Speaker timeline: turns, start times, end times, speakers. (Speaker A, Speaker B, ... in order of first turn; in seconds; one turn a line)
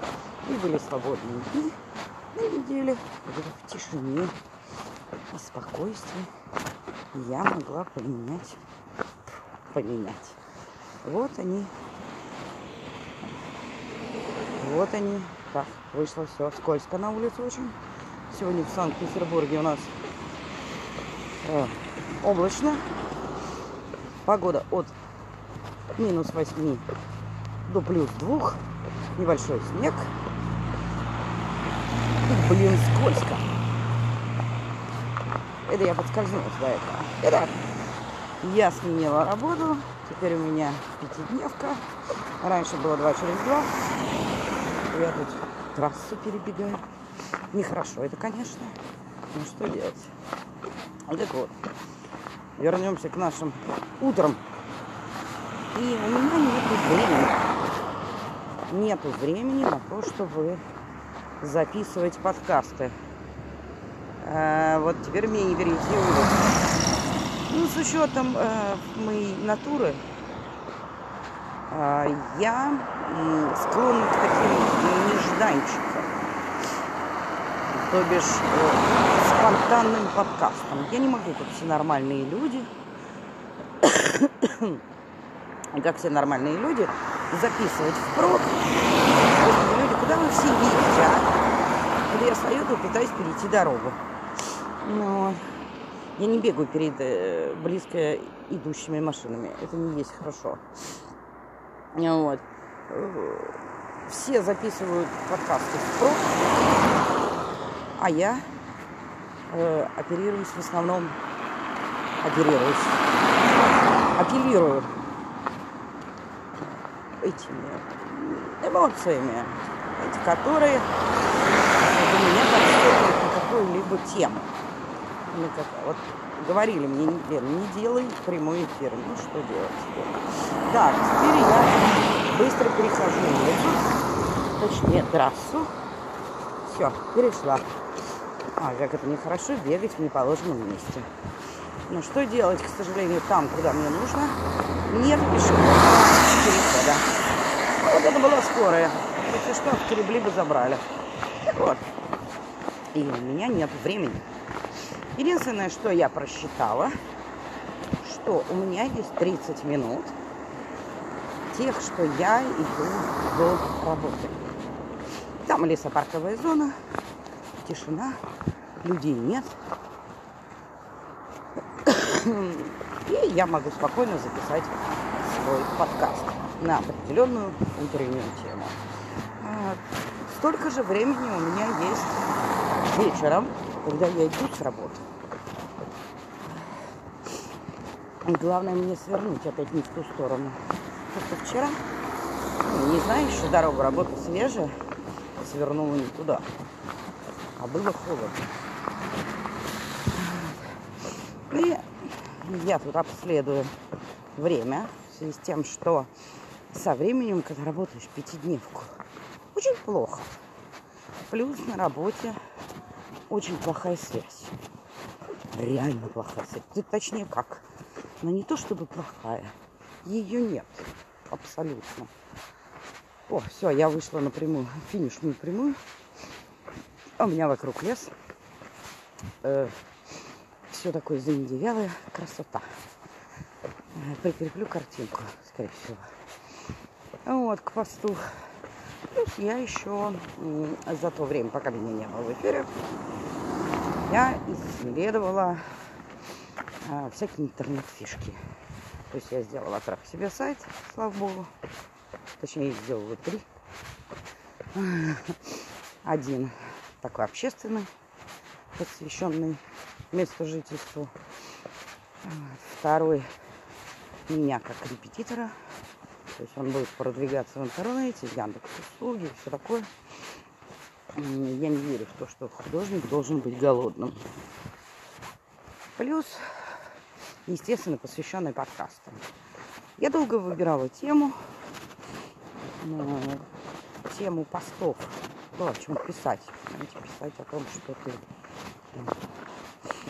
Speaker A: 0.4-1.8
Speaker A: 2.3-4.3
Speaker A: 5.3-6.3
Speaker A: 7.1-8.6
Speaker A: 9.7-10.4
Speaker A: 11.0-11.7
Speaker A: 14.6-17.8
Speaker A: 18.3-20.0
Speaker A: 21.4-22.9
Speaker A: 24.2-24.9
Speaker A: 25.9-26.9
Speaker A: 27.6-28.6
Speaker A: 29.1-30.1
Speaker A: 32.2-33.5
Speaker A: 35.6-37.6
Speaker A: 38.4-41.9
Speaker A: 42.4-43.7
Speaker A: 44.9-46.8
Speaker A: 47.5-48.8
Speaker A: 49.3-50.1
Speaker A: 51.1-51.6
Speaker A: 52.6-54.4
Speaker A: 55.7-57.4
Speaker A: 58.7-60.6
Speaker A: 61.4-62.9
Speaker A: 64.2-66.5
Speaker A: 67.5-70.0
Speaker A: 71.7-76.3
Speaker A: 77.7-82.7
Speaker A: 83.8-84.8
Speaker A: 85.7-91.3
Speaker A: 92.1-94.0
Speaker A: 94.8-95.4
Speaker A: 96.2-100.6
Speaker A: 101.9-103.5
Speaker A: 104.0-106.3
Speaker A: 108.0-108.5
Speaker A: 109.5-111.2
Speaker A: 112.2-113.0
Speaker A: 114.1-115.0
Speaker A: 117.2-120.9
Speaker A: 121.8-124.5
Speaker A: 125.2-134.0
Speaker A: 134.6-135.7
Speaker A: 136.6-137.7
Speaker A: 138.6-141.1
Speaker A: 141.9-147.1
Speaker A: 147.8-150.8
Speaker A: 151.5-151.8
Speaker A: 152.9-154.2
Speaker A: 155.1-156.9
Speaker A: 158.0-160.2
Speaker A: 161.5-164.4
Speaker A: 165.4-166.8
Speaker A: 167.6-168.2
Speaker A: 168.8-169.6
Speaker A: 171.8-178.8
Speaker A: 179.4-182.2
Speaker A: 182.8-185.1
Speaker A: 188.2-191.8
Speaker A: 192.6-194.8
Speaker A: 195.3-196.5
Speaker A: 197.6-198.5
Speaker A: 200.1-200.6
Speaker A: 201.5-203.7
Speaker A: 204.3-206.1
Speaker A: 206.7-209.0
Speaker A: 209.5-210.3
Speaker A: 211.3-212.4
Speaker A: 213.3-214.6
Speaker A: 215.5-217.7
Speaker A: 218.2-222.1
Speaker A: 223.3-225.8
Speaker A: 227.2-228.1
Speaker A: 229.4-229.8
Speaker A: 230.7-232.8
Speaker A: 233.9-236.1
Speaker A: 237.2-238.4
Speaker A: 239.1-242.7
Speaker A: 244.1-245.7
Speaker A: 246.8-248.4
Speaker A: 249.1-251.5
Speaker A: 252.4-253.4
Speaker A: 254.7-257.9
Speaker A: 258.7-261.1
Speaker A: 262.2-263.3
Speaker A: 264.3-265.6
Speaker A: 266.4-269.9
Speaker A: 271.1-274.2
Speaker A: 276.0-276.9
Speaker A: 277.5-279.2
Speaker A: 280.0-281.4
Speaker A: 282.8-283.4
Speaker A: 284.0-288.2
Speaker A: 288.9-289.2